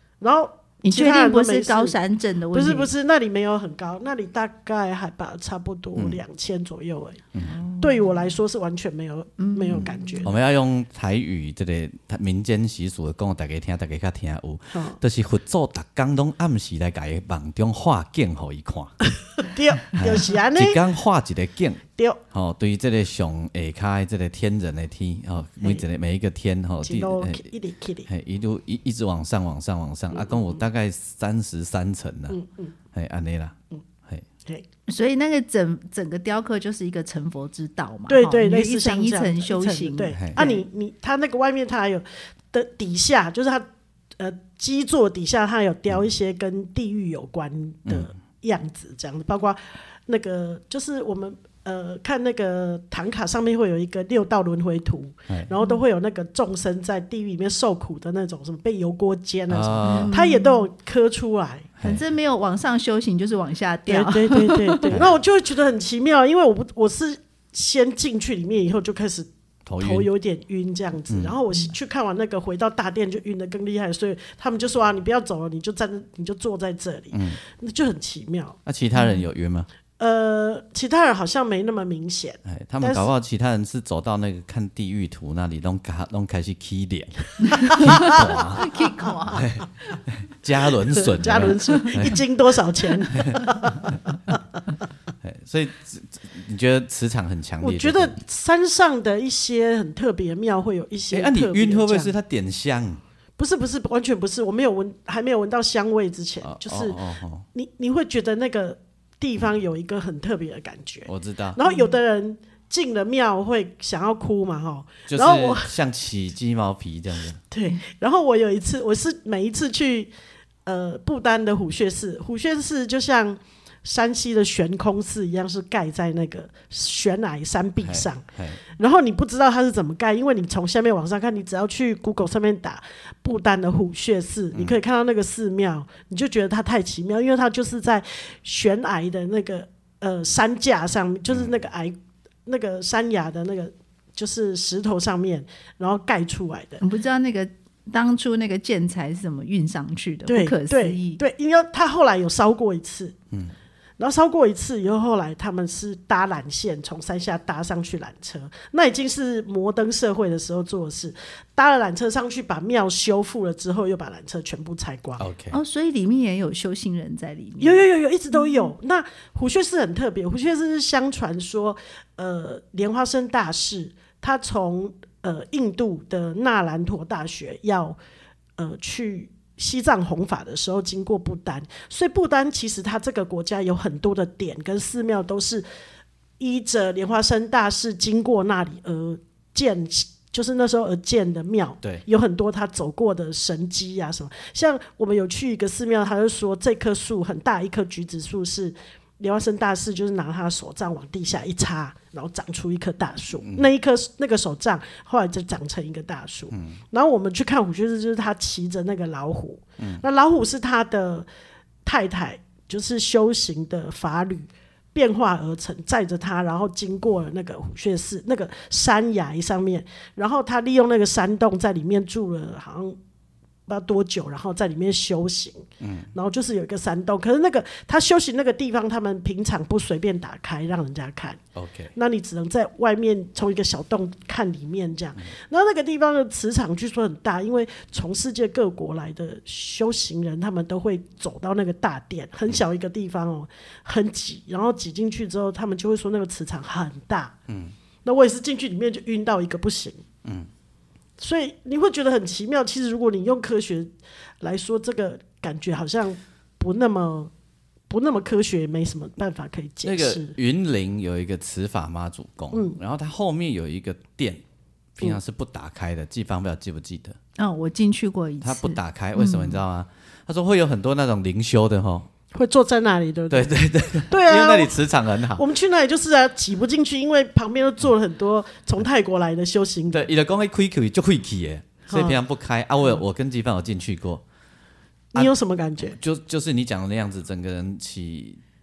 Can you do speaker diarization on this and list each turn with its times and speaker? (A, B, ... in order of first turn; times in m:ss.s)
0:00.2-0:02.0 A
0:00.8-0:02.9 B
0:02.5-0:07.2 A
0:07.5-0:08.3 B
0:07.8-0:10.3 A
0:09.4-0:10.2 B
0:10.2-0:18.9 C
0:14.7-0:15.0 A
0:19.3-0:20.8 A
0:19.9-0:27.4 C
0:26.8-0:28.1 A
0:28.1-0:32.4 C
0:30.1-0:30.6 A
0:32.3-0:32.7 A
0:32.9-0:34.2 C
0:34.9-0:40.6 B
0:38.1-0:43.6 A
0:40.1-0:40.4 C
0:44.2-1:01.7 A
0:59.5-1:00.2 C
0:59.8-1:00.6 B
1:01.8-1:04.9 B
1:03.9-1:09.3 A
1:09.6-1:10.1 C
1:09.8-1:18.6 A
1:11.1-1:11.4 C
1:17.1-1:17.4 C
1:18.6-1:19.7 C
1:18.9-1:19.2 B
1:20.0-1:23.1 A
1:22.4-1:28.7 C
1:27.5-1:28.2 A
1:27.6-1:29.5 B
1:29.3-1:32.2 C
1:30.9-1:34.4 A
1:33.1-1:33.9 C
1:35.2-1:38.2 C
1:37.6-1:42.1 A
1:41.1-1:43.0 C
1:43.4-1:47.0 A
1:46.4-1:47.4 C
1:47.5-1:55.7 A
1:51.0-1:51.6 C
1:51.6-1:51.9 B
1:55.1-1:57.4 C
1:57.5-2:00.1 A
2:00.6-2:21.9 A
2:07.8-2:08.6 C
2:21.3-2:21.5 C
2:22.4-2:26.8 A
2:26.8-2:31.2 B
2:30.3-2:33.2 A
2:34.0-2:45.2 A
2:45.2-2:45.6 C
2:45.5-2:47.8 B
2:47.6-2:58.0 A
2:48.3-2:48.7 B
2:58.6-3:05.6 A
3:06.4-3:31.3 A
3:23.4-3:23.7 C
3:26.5-3:26.8 C
3:31.8-3:43.0 A
3:43.7-3:51.4 A
3:45.8-3:46.1 C
3:51.5-3:51.9 C
3:51.9-4:07.3 A
4:07.5-4:07.7 C
4:08.0-4:10.0 A
4:11.2-4:17.3 A
4:17.9-4:20.3 A
4:19.8-4:24.4 C
4:22.5-4:22.8 A
4:25.0-4:27.2 C
4:27.4-4:29.6 B
4:28.4-4:32.1 C
4:32.3-4:34.8 A
4:33.3-4:35.4 C
4:35.3-4:40.0 A
4:39.9-4:44.2 C
4:41.9-4:42.2 A
4:45.1-4:46.0 A
4:45.8-4:48.4 C